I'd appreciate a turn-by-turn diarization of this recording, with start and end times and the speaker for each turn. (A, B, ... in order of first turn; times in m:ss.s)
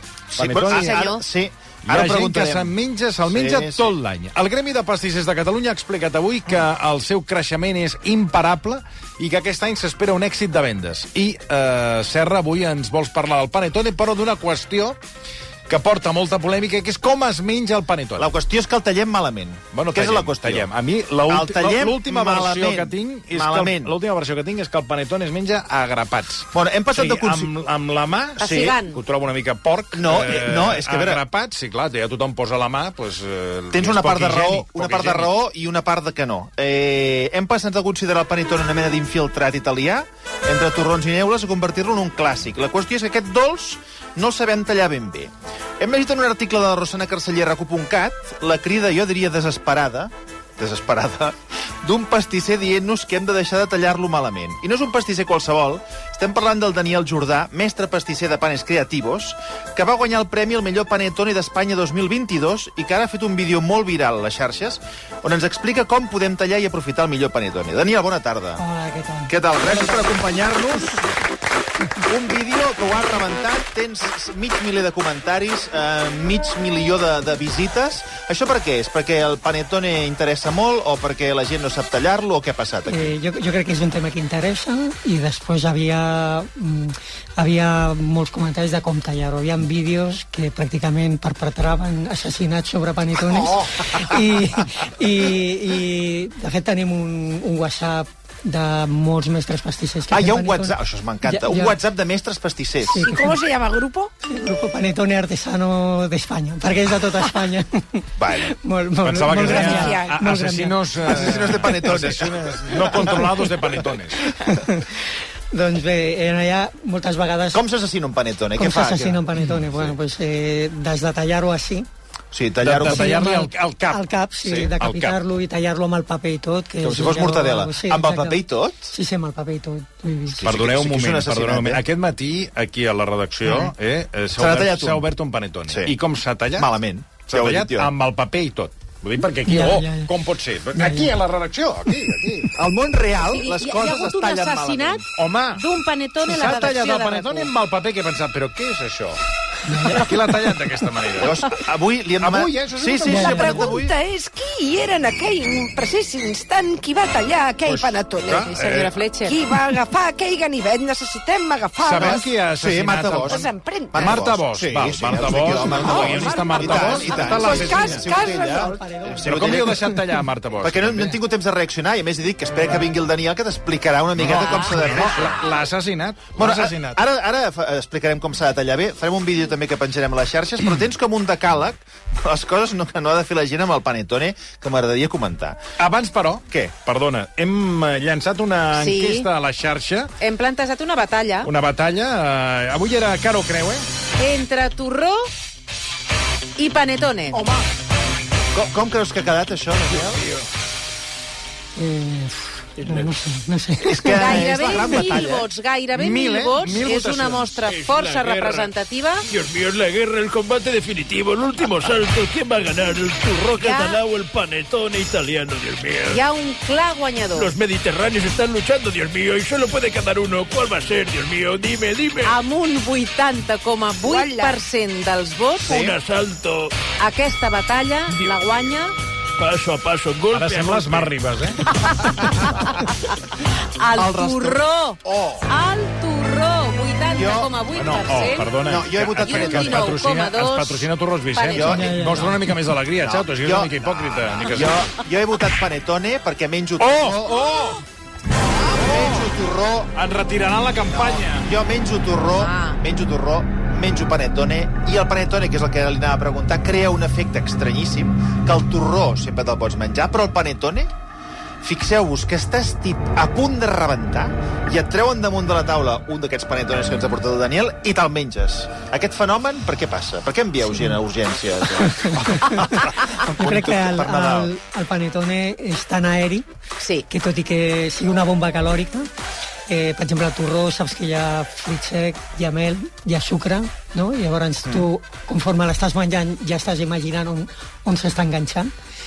0:00.3-0:02.7 A
0:00.4-0:01.0 B
0:00.7-0:01.2 C
0:01.8-0:15.0 B
0:03.3-0:03.9 A
0:15.7-0:18.3 B
0:18.2-0:20.7 A
0:19.7-0:35.3 B
0:21.3-0:23.9 A
0:26.5-0:27.5 A
0:28.4-0:29.0 C
0:28.4-0:28.8 A
0:29.9-0:31.2 A
0:33.7-1:08.6 A
1:08.6-1:10.2 D
1:09.3-1:11.0 A
1:12.1-1:23.1 A
1:22.9-1:41.8 D
1:40.1-1:43.1 A
1:42.8-1:43.4 D
1:43.0-1:44.1 E
1:44.2-1:55.0 D
1:48.2-1:48.5 A
1:49.0-1:54.2 B
1:49.3-1:50.2 E
1:51.0-1:53.3 A
1:55.5-1:57.6 D
1:57.5-1:59.2 A
1:58.6-2:01.9 D
2:02.3-2:03.1 A
2:02.6-2:04.0 B
2:02.8-2:10.4 D
2:04.4-2:04.7 A
2:04.8-2:05.2 B
2:06.8-2:08.9 A
2:10.4-2:11.8 A
2:10.4-2:16.7 B
2:14.4-2:15.1 A
2:15.7-2:15.9 A
2:16.6-2:17.9 A
2:17.3-2:22.5 B
2:19.4-2:20.2 D
2:20.7-2:21.1 D
2:22.5-2:25.0 A
2:23.3-2:25.0 C
2:25.2-2:25.6 B
2:25.6-2:27.5 C
2:26.2-2:29.2 B
2:29.6-2:30.2 D
2:29.8-2:31.4 B
2:31.2-2:34.0 A
2:32.2-2:33.6 B
2:33.0-2:42.3 E
2:33.0-2:33.6 D
2:37.6-2:39.0 B
2:38.5-2:39.4 C
2:41.8-2:48.1 B
2:42.0-2:49.9 A
2:43.3-2:44.2 E
2:45.8-2:48.8 E
2:48.0-2:50.0 D
2:49.2-2:51.2 B
2:50.6-2:55.4 A
2:54.2-2:57.0 B
2:54.2-2:55.2 C
2:56.4-3:05.6 A
3:05.8-3:10.1 B
3:06.5-3:06.7 A
3:08.7-3:09.3 C
3:10.2-3:11.5 C
3:11.4-3:13.8 B
3:14.2-3:15.3 C
3:16.6-3:17.4 C
3:18.5-3:20.3 A
3:21.8-3:25.1 D
3:22.8-3:23.1 F
3:23.8-3:25.5 A
3:24.1-3:29.2 C
3:25.9-3:27.5 B
3:27.6-3:28.7 F
3:29.3-3:36.2 F
3:33.6-3:34.0 C
3:36.1-3:37.5 C
3:37.3-3:42.4 F
3:42.2-3:45.8 C
3:44.0-3:44.6 E
3:45.6-3:46.0 A
3:45.6-3:46.7 F
3:47.0-3:48.9 C
3:48.1-3:48.4 F
3:49.4-3:51.2 F
3:50.3-3:51.6 B
3:51.8-3:58.5 C
3:53.9-3:55.5 A
3:57.1-3:57.5 A
3:57.7-4:04.9 B
3:58.6-3:59.9 A
3:59.2-4:01.8 C
4:01.6-4:02.0 A
4:01.6-4:02.6 D
4:03.0-4:07.7 A
4:06.8-4:07.8 B
4:08.5-4:09.9 A
4:08.8-4:09.3 B
4:09.9-4:11.4 B
4:10.9-4:20.9 A
4:12.2-4:12.8 C
4:21.6-4:34.5 A
4:31.8-4:36.4 D
4:36.8-4:37.0 C
4:37.1-4:39.1 D
4:39.7-4:48.7 D